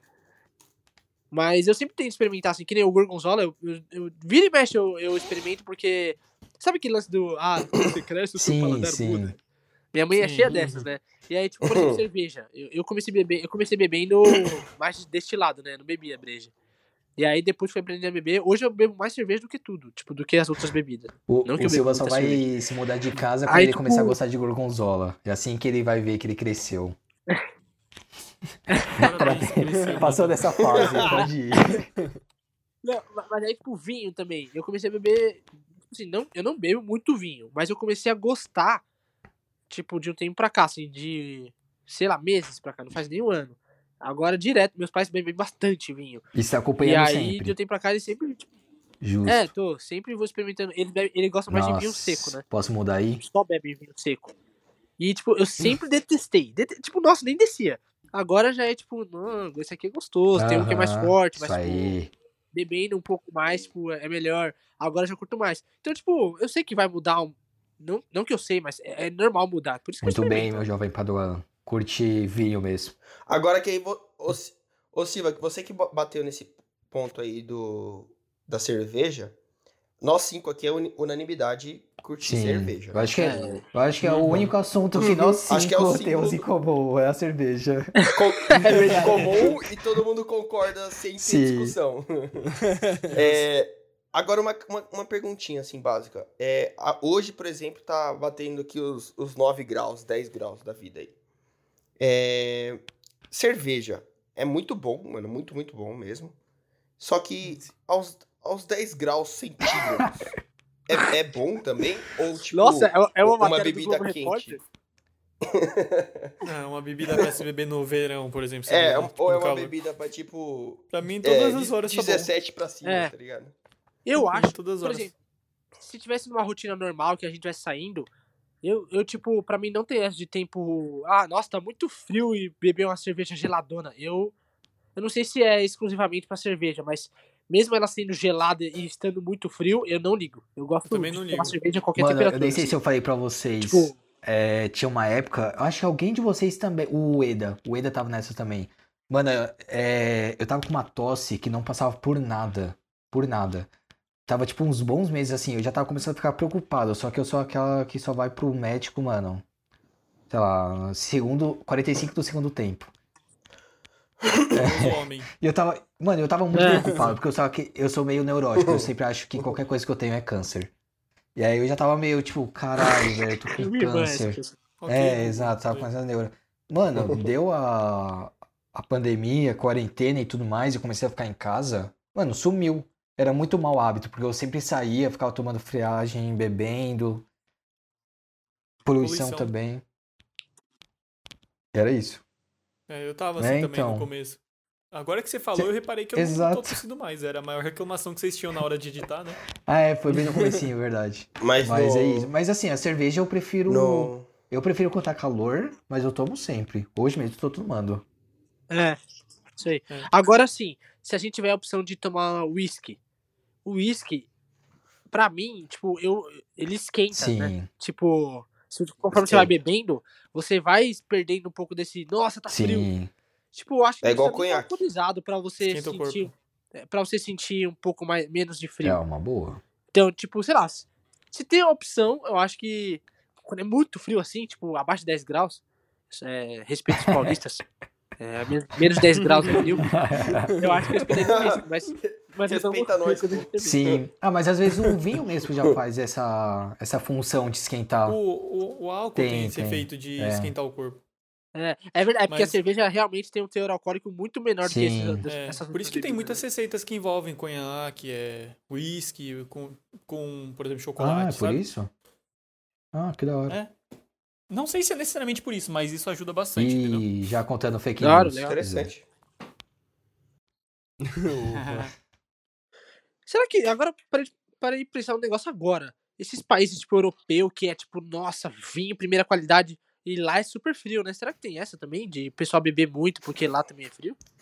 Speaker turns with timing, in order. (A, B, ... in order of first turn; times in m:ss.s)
0:01.3-0:09.4 A
0:08.4-0:09.3 B
0:09.9-0:16.5 A
0:10.2-0:10.5 C
0:10.5-0:10.8 D
0:11.6-0:12.0 E
0:17.2-0:22.4 A
0:21.3-0:27.0 B
0:23.4-0:24.2 A
0:28.7-0:29.1 A
0:28.9-0:30.7 C
0:29.0-0:31.8 B
0:29.6-0:30.1 D
0:30.8-0:31.8 A
0:32.8-0:38.8 A
0:39.7-0:46.2 A
0:46.3-0:47.5 B
0:46.8-0:48.5 A
0:49.0-0:49.5 B
0:49.2-0:52.4 A
0:51.5-0:53.2 B
0:53.2-0:54.3 A
0:55.0-1:01.9 A
1:00.3-1:02.1 B
1:02.5-1:10.6 A
1:10.0-1:12.9 B
1:13.3-1:19.4 E
1:20.0-1:23.6 E
1:22.2-1:27.9 B
1:23.2-1:23.6 A
1:24.0-1:24.5 C
1:24.2-1:24.5 D
1:25.0-1:25.4 A
1:25.5-1:26.5 E
1:28.1-1:32.4 E
1:28.5-1:29.4 A
1:28.5-1:29.6 B
1:31.2-1:31.8 B
1:33.1-1:41.1 E
1:42.0-1:46.3 E
1:47.0-1:50.3 E
1:47.4-1:47.7 C
1:50.8-1:54.6 E
1:52.5-1:54.6 A
1:55.4-1:56.3 E
1:56.4-1:59.7 C
1:58.7-2:03.5 E
2:00.9-2:02.3 C
2:02.8-2:03.1 A
2:04.0-2:05.1 A
2:04.2-2:05.1 C
2:05.8-2:08.1 A
2:08.6-2:14.3 A
2:15.0-2:22.8 A
2:20.9-2:21.6 C
2:22.0-2:33.7 B
2:23.6-2:24.0 A
2:34.2-2:39.4 B
2:40.3-2:42.9 B
2:44.5-2:45.3 C
2:44.5-2:50.7 B
2:46.5-2:46.8 A
2:46.8-2:47.1 D
2:48.6-2:48.9 E
2:51.4-3:07.2 B
2:53.5-2:54.6 A
2:54.8-2:55.9 C
3:08.8-3:09.8 B
3:09.0-3:09.5 C
3:11.7-3:12.2 B
3:12.9-3:14.4 C
3:13.4-3:14.1 B
3:14.9-3:19.4 C
3:15.5-3:16.8 B
3:19.6-3:28.0 B
3:20.1-3:20.6 D
3:21.4-3:22.3 E
3:23.7-3:24.3 E
3:28.7-3:29.0 A
3:29.6-3:33.0 A
3:33.6-3:34.3 A
3:35.1-3:42.9 A
3:37.1-3:37.7 B
3:39.1-3:39.5 E
3:42.5-3:43.1 B
3:43.5-3:49.0 A
3:44.0-3:44.8 E
3:45.6-3:46.3 C
3:48.8-3:49.6 B
3:49.9-3:57.6 A
3:56.9-3:57.4 B
3:58.2-3:59.9 A
3:59.2-4:00.8 D
3:59.8-4:00.5 B
4:00.6-4:03.8 A
4:01.1-4:04.0 E
4:03.6-4:08.2 B
4:08.0-4:11.0 C
4:09.1-4:10.5 B
4:11.5-4:16.4 A
4:12.3-4:12.6 C
4:14.6-4:15.2 B
4:15.2-4:21.6 C
4:21.0-4:21.9 B
4:22.9-4:23.6 B
4:24.5-4:27.0 C
4:26.6-4:28.9 B
4:28.0-4:28.6 A
4:28.4-4:29.0 E
4:31.0-4:31.9 D
4:31.5-4:31.9 C
4:33.2-4:44.2 A